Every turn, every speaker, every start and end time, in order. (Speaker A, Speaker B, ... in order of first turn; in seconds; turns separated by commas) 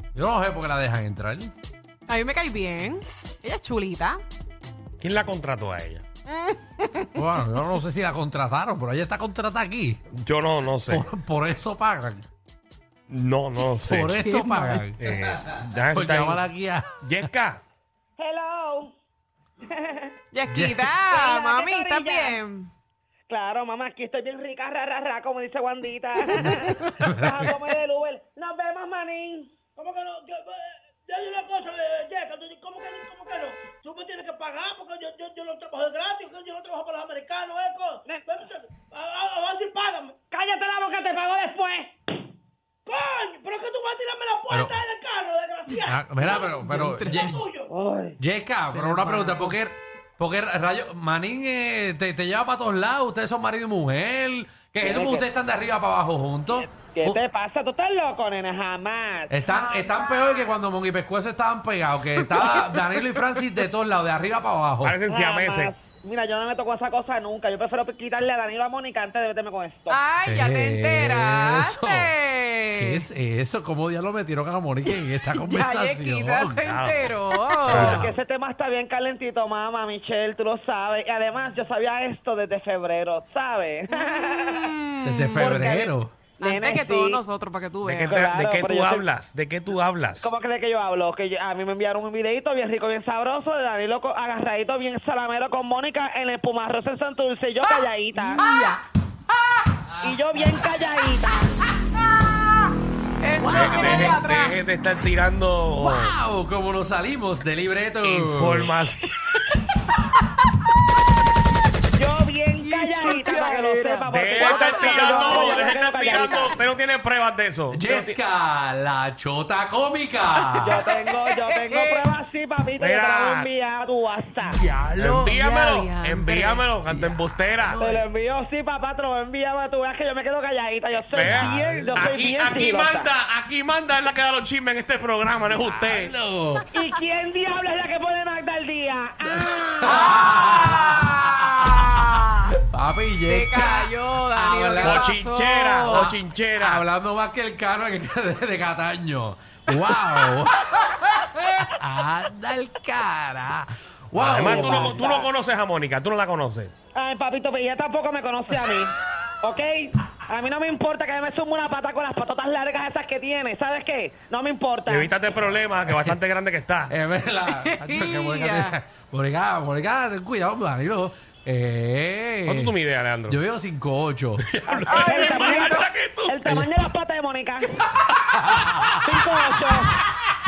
Speaker A: 0.1-1.5, Speaker B: 2.1-4.2, Speaker C: 5.0-6.1, Speaker B: 6.3-7.1, Speaker A: 7.2-10.0, Speaker C: 10.2-11.1, Speaker A: 10.9-12.3, Speaker C: 13.1-14.2, Speaker A: 13.9-17.0, Speaker B: 14.2-14.8, Speaker C: 15.0-16.4, Speaker C: 17.0-17.6, Speaker D: 18.2-18.9, Speaker D: 19.7-20.2, Speaker B: 20.3-22.7, Speaker A: 20.5-20.9, Speaker D: 21.1-22.4, Speaker D: 23.3-29.5, Speaker B: 26.7-27.0, Speaker A: 27.0-27.5, Speaker E: 29.8-40.2, Speaker D: 40.3-42.0, Speaker E: 42.9-47.7, Speaker A: 45.8-47.4, Speaker B: 46.6-47.4, Speaker D: 47.7-48.2, Speaker A: 48.2-57.2, Speaker B: 48.7-49.5, Speaker D: 54.8-55.3, Speaker D: 56.5-59.3, Speaker A: 59.3-65.0, Speaker B: 59.5-60.5, Speaker B: 62.4-62.7, Speaker C: 64.8-65.7, Speaker D: 65.1-70.0, Speaker B: 69.9-73.0, Speaker A: 70.3-72.1, Speaker A: 72.8-76.7, Speaker B: 75.2-78.1, Speaker C: 76.6-77.1, Speaker C: 77.7-78.2, Speaker A: 77.7-78.0, Speaker D: 77.7-84.7, Speaker B: 83.9-85.5, Speaker A: 85.0-86.2, Speaker D: 85.4-87.2, Speaker B: 86.4-88.2, Speaker C: 87.8-90.3, Speaker D: 88.1-89.1, Speaker D: 90.2-98.4, Speaker B: 97.6-98.8, Speaker B: 99.3-99.8, Speaker D: 100.0-101.7, Speaker B: 102.3-102.7, Speaker B: 103.2-104.7, Speaker A: 103.4-104.2, Speaker C: 103.4-106.2, Speaker A: 105.8-108.7, Speaker C: 108.0-109.1, Speaker D: 112.0-116.6, Speaker B: 112.6-115.7, Speaker C: 114.1-118.2, Speaker A: 117.7-120.8, Speaker B: 120.5-122.1, Speaker D: 120.6-124.6, Speaker C: 122.8-123.5, Speaker A: 124.6-125.4, Speaker C: 125.0-127.8, Speaker B: 125.2-126.7, Speaker A: 126.9-128.1, Speaker D: 127.8-133.1, Speaker C: 131.1-136.1, Speaker A: 131.2-132.1, Speaker A: 135.8-136.6, Speaker D: 136.7-140.1, Speaker A: 139.4-141.9, Speaker B: 139.5-142.6, Speaker A: 142.4-145.2, Speaker B: 143.3-146.1, Speaker C: 144.8-146.8, Speaker A: 145.8-150.9, Speaker A: 151.7-155.0, Speaker C: 154.2-156.7, Speaker D: 154.4-155.3, Speaker D: 156.9-165.1, Speaker C: 164.9-166.9, Speaker A: 165.9-166.2, Speaker A: 166.9-172.7, Speaker B: 167.5-168.8, Speaker C: 172.5-173.4, Speaker A: 173.3-175.6, Speaker C: 174.7-176.5, Speaker D: 174.7-177.7, Speaker B: 174.9-175.9, Speaker A: 176.4-176.7, Speaker A: 178.1-179.2, Speaker D: 178.9-180.0